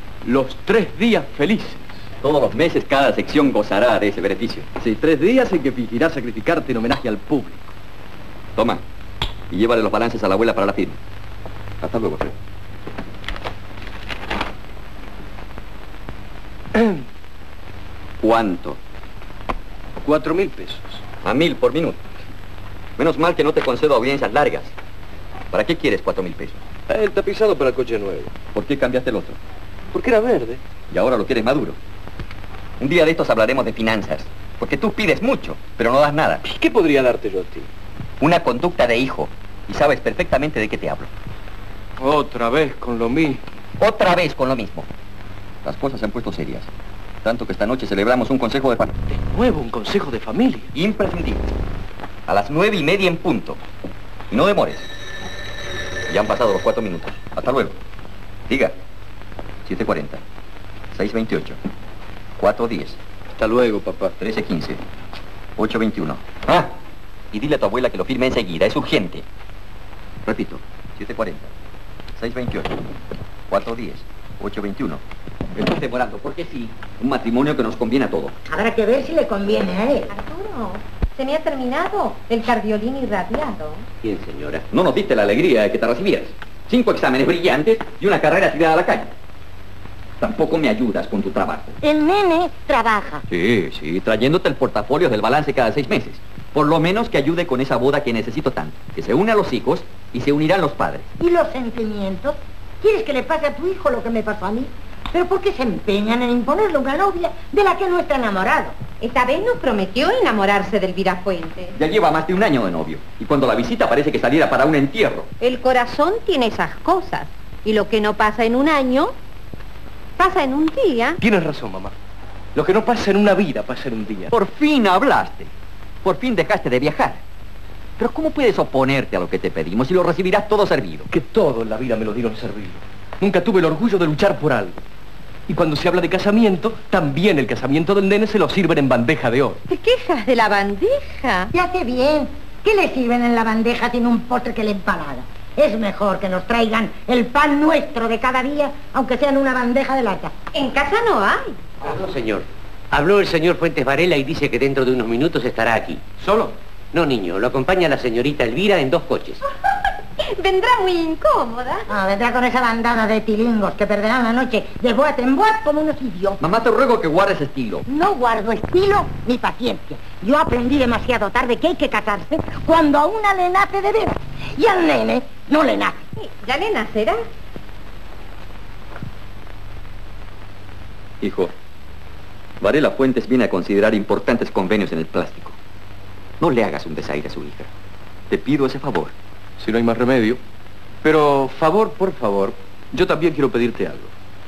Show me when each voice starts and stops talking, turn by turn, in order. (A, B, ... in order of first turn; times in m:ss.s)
0:00.2-0:01.9 A
0:02.2-0:04.7 B
0:04.8-0:07.7 A
0:08.6-0:08.8 B
0:09.5-0:11.0 B
0:11.8-0:12.3 B
0:16.7-0:17.0 A
0:18.2-0:18.8 B
0:20.0-0:21.0 A
0:21.2-0:22.0 B
0:23.0-0:24.7 B
0:25.5-0:26.6 B
0:26.9-0:28.3 A
0:28.5-0:29.4 B
0:29.9-0:30.6 A
0:30.9-0:31.8 B
0:32.8-0:36.4 B
0:36.5-0:37.7 A
0:38.2-0:41.1 B
0:42.0-0:43.4 A
0:43.8-0:44.9 B
0:45.6-0:46.7 B
0:47.2-0:49.0 B
0:49.1-0:50.7 A
0:50.7-0:51.5 B
0:52.3-0:53.6 B
0:54.3-0:54.9 B
0:56.1-0:57.8 B
0:58.5-0:58.7 B
0:59.6-1:00.2 B
1:00.9-1:01.6 B
1:02.4-1:03.0 B
1:03.4-1:04.2 A
1:04.2-1:04.8 B
1:05.6-1:06.7 B
1:07.3-1:09.2 B
1:10.2-1:11.5 B
1:12.2-1:12.8 B
1:13.5-1:15.0 B
1:15.5-1:18.3 B
1:18.5-1:20.1 C
1:20.1-1:23.8 D
1:24.0-1:24.6 E
1:24.7-1:29.1 B
1:30.2-1:31.8 B
1:31.8-1:33.2 C
1:33.3-1:41.1 B
1:41.2-1:48.8 C
1:49.0-1:51.7 D
1:51.7-1:55.3 B
1:55.4-1:59.1 D
2:00.2-2:01.2 D
2:01.2-2:01.9 A
2:02.5-2:04.3 A
2:04.3-2:05.5 B
2:06.0-2:07.2 B
2:08.0-2:11.1 B
2:11.1-2:14.8 A
2:15.5-2:19.6 A
2:19.7-2:21.5 D
2:21.5-2:30.3 C
2:30.5-2:31.5 D
2:31.8-2:39.4 E
2:40.2-2:41.8 D
2:41.9-2:46.4 C
2:46.4-2:47.8 B
2:47.9-2:56.0 C
2:56.2-2:57.2 D
3:01.2-3:01.5 B
3:02.6-3:05.6 B
3:06.4-3:07.7 B
3:08.3-3:09.1 B
3:09.6-3:10.4 A
3:11.0-3:14.1 A